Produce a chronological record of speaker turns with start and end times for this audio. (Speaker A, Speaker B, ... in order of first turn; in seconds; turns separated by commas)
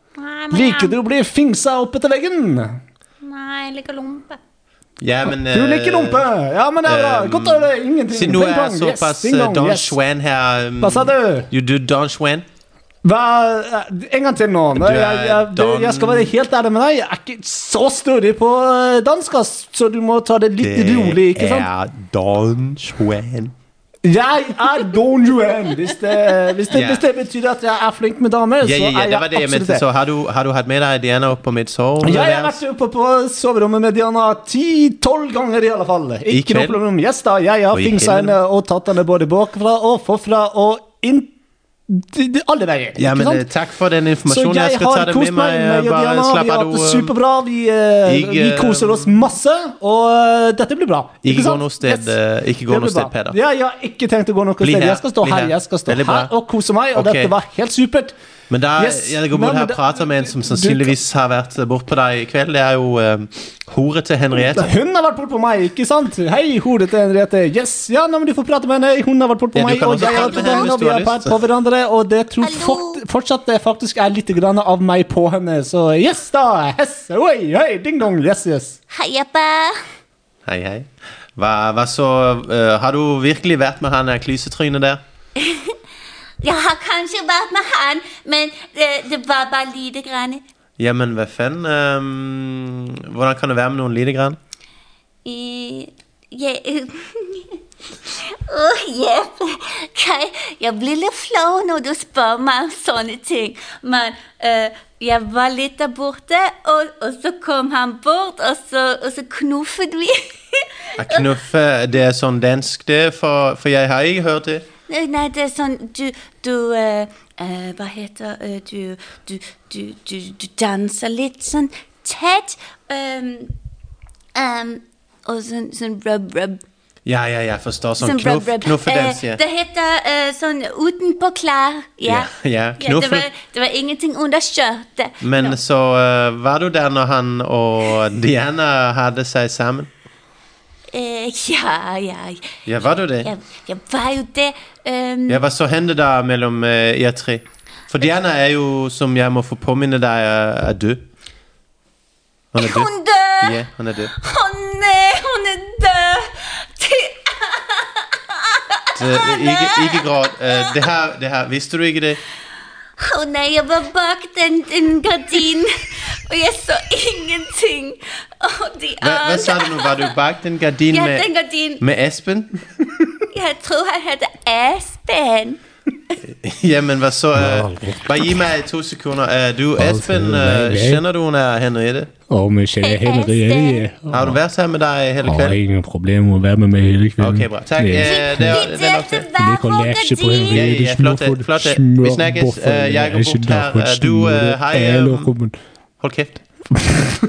Speaker A: 0.2-1.0, Speaker B: 0.5-2.8, Speaker A: 3.2-4.4, Speaker C: 5.0-6.3, Speaker B: 5.3-10.0, Speaker C: 6.8-12.4, Speaker B: 10.8-11.5, Speaker B: 13.0-21.7, Speaker C: 14.8-16.3, Speaker C: 20.6-23.5, Speaker B: 24.0-29.9, Speaker C: 26.7-27.1, Speaker C: 28.6-32.6, Speaker B: 32.0-41.4, Speaker C: 36.3-36.8, Speaker C: 37.7-38.4, Speaker B: 41.9-43.5, Speaker C: 43.0-47.1, Speaker B: 44.3-52.2, Speaker C: 48.0-49.2, Speaker C: 51.2-53.4, Speaker B: 52.7-58.1, Speaker C: 54.6-56.3, Speaker C: 56.9-57.3, Speaker C: 58.5-64.7, Speaker B: 58.8-61.0, Speaker B: 64.4-78.8, Speaker C: 69.5-71.4, Speaker A: 70.2-70.6, Speaker A: 72.4-73.0, Speaker A: 78.9-79.8, Speaker C: 80.5-85.0, Speaker A: 85.4-85.8, Speaker A: 86.4-90.4, Speaker C: 90.8-94.4, Speaker A: 95.2-111.3, Speaker C: 111.0-114.7, Speaker A: 114.9-123.5, Speaker A: 124.3-126.6, Speaker C: 127.1-129.4, Speaker A: 128.0-135.6, Speaker C: 132.0-133.3, Speaker C: 135.2-139.9, Speaker A: 140.9-142.5, Speaker C: 142.7-143.3, Speaker A: 143.2-145.4, Speaker C: 145.3-151.0, Speaker C: 152.5-154.1, Speaker A: 152.6-153.6, Speaker A: 154.2-160.8, Speaker C: 158.9-162.2, Speaker A: 163.0-170.1, Speaker C: 169.0-171.3, Speaker A: 170.9-171.8, Speaker C: 171.8-172.7, Speaker A: 173.3-175.6, Speaker C: 176.2-182.1, Speaker D: 177.4-178.1, Speaker D: 179.9-180.9, Speaker B: 182.4-184.2, Speaker D: 182.5-183.0, Speaker A: 182.8-183.9, Speaker C: 184.1-185.6, Speaker D: 185.3-187.4, Speaker C: 187.2-189.3, Speaker B: 187.8-188.6, Speaker A: 188.0-190.6, Speaker D: 189.5-191.0, Speaker B: 189.9-195.5, Speaker C: 190.5-195.3, Speaker C: 196.0-196.4